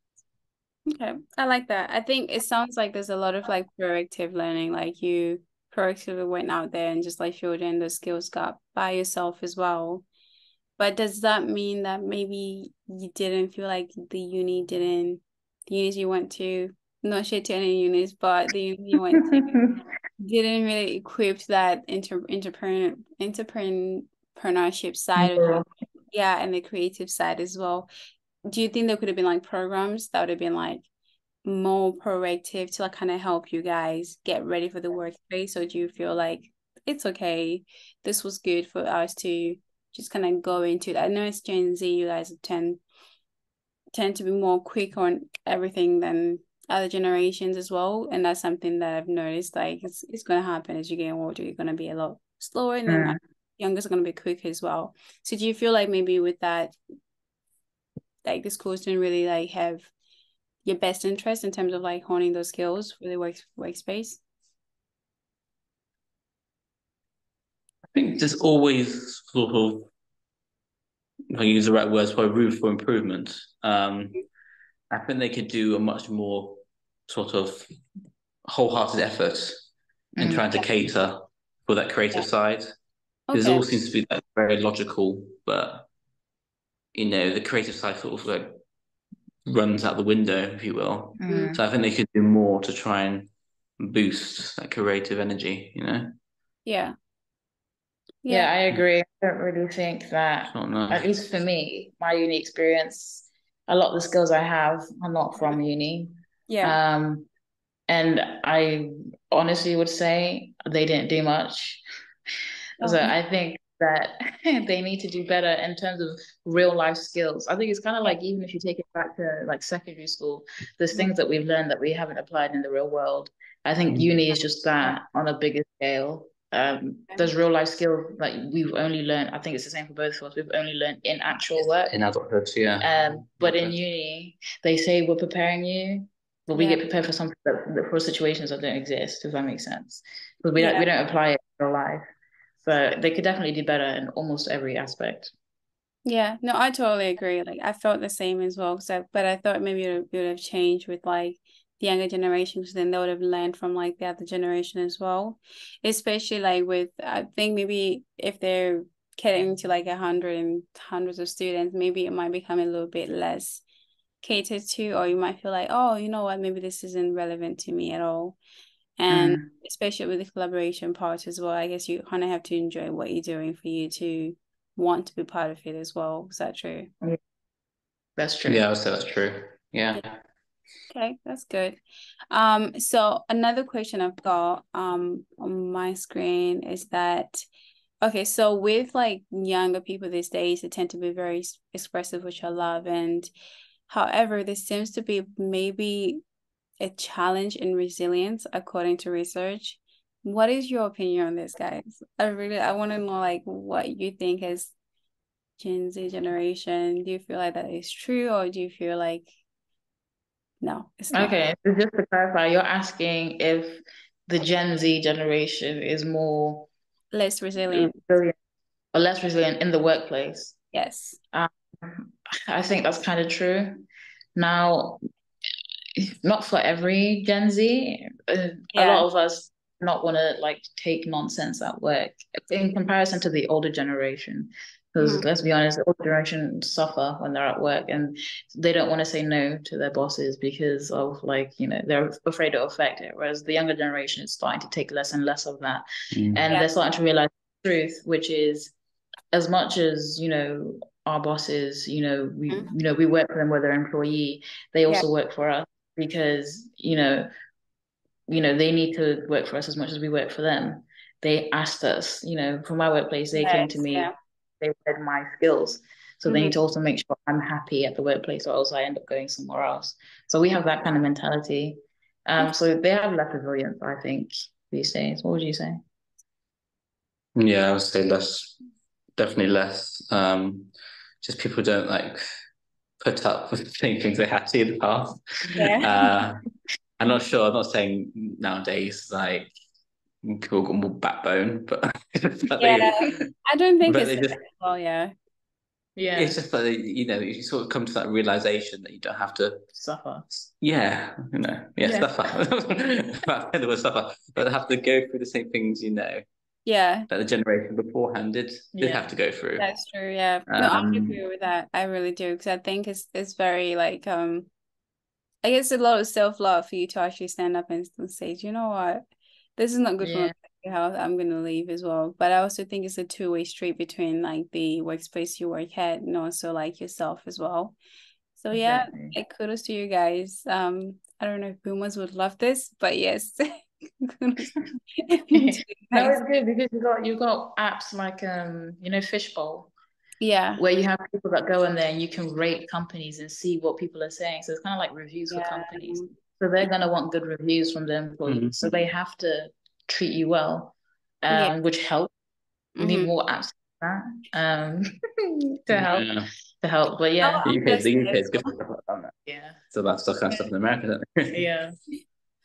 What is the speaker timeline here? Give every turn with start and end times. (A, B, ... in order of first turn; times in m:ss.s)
0:00.9-0:10.0 A
0:10.8-0:19.5 A
0:19.0-0:19.8 B
0:20.2-0:25.6 A
0:25.2-0:25.6 B
0:26.1-0:27.9 A
0:28.5-0:30.8 A
0:31.4-0:42.8 A
0:43.9-0:56.7 A
0:52.9-0:53.2 B
0:58.2-0:59.9 A
1:00.6-1:04.2 A
1:07.9-1:09.9 C
1:11.3-1:14.2 C
1:14.9-1:17.7 C
1:18.4-1:19.7 C
1:20.2-1:20.4 B
1:20.2-1:22.7 C
1:23.3-1:23.7 A
1:23.3-1:25.9 C
1:26.9-1:28.6 C
1:29.4-1:36.1 C
1:31.2-1:31.6 B
1:31.3-1:31.6 A
1:36.6-1:36.9 A
1:38.2-1:38.5 A
1:38.3-1:47.3 B
1:40.5-1:41.1 C
1:46.5-1:46.8 A
1:47.9-1:51.8 B
1:52.8-1:53.1 A
1:52.8-2:11.9 B
2:11.9-2:13.8 C
2:12.8-2:22.0 B
2:16.5-2:16.8 A
2:20.6-2:20.9 A
2:22.6-2:25.3 B
2:26.0-2:43.6 A
2:44.2-2:48.4 A
2:49.0-2:56.9 A
2:49.1-2:49.5 B
2:58.2-2:58.6 B
2:58.4-3:00.2 C
3:00.9-3:01.8 A
3:02.3-3:07.4 A
3:08.0-3:13.3 A
3:13.9-3:16.2 A
3:16.8-3:24.7 A
3:25.6-3:29.3 A
3:30.6-3:31.3 A
3:31.1-3:36.7 B
3:37.1-3:38.0 A
3:37.7-3:38.3 B
3:38.9-3:40.6 B
3:40.7-3:41.2 A
3:41.3-3:43.8 B
3:44.4-3:45.0 B
3:46.0-4:08.7 B
3:48.7-3:49.0 A
3:55.0-3:55.2 A
4:06.1-4:06.4 C
4:09.3-4:17.3 B
4:18.3-4:35.8 B
4:23.3-4:24.1 A
4:26.3-4:26.5 A
4:37.4-4:38.5 C
4:39.2-4:40.7 C
4:41.2-4:42.2 C
4:43.0-4:46.4 C
4:45.6-4:45.9 A
4:47.0-4:49.5 C
4:50.2-4:53.3 C
4:52.6-4:55.1 A
4:53.8-4:54.4 C
4:56.0-4:56.4 B
4:56.2-4:59.6 C
4:59.7-5:00.2 B
5:00.5-5:06.2 C
5:01.8-5:02.2 B
5:06.6-5:07.1 A
5:07.1-5:09.7 C
5:08.7-5:09.1 B
5:09.6-5:14.5 A
5:10.5-5:11.2 C
5:15.4-5:19.0 A
5:19.6-5:27.7 A
5:20.0-5:20.3 B
5:28.4-5:33.4 A
5:28.5-5:29.2 B
5:34.0-5:36.2 A
5:35.3-5:39.7 B
5:40.2-5:40.6 A
5:40.6-5:52.1 B
5:45.3-5:46.1 A
5:48.2-5:48.7 C
5:52.8-5:53.1 A
5:52.8-5:56.1 B
5:55.7-5:56.3 C
5:56.6-5:57.5 B
5:57.2-5:58.5 A
5:57.4-5:59.1 C
5:59.2-5:59.6 B
5:59.7-6:01.4 C
6:01.3-6:01.8 B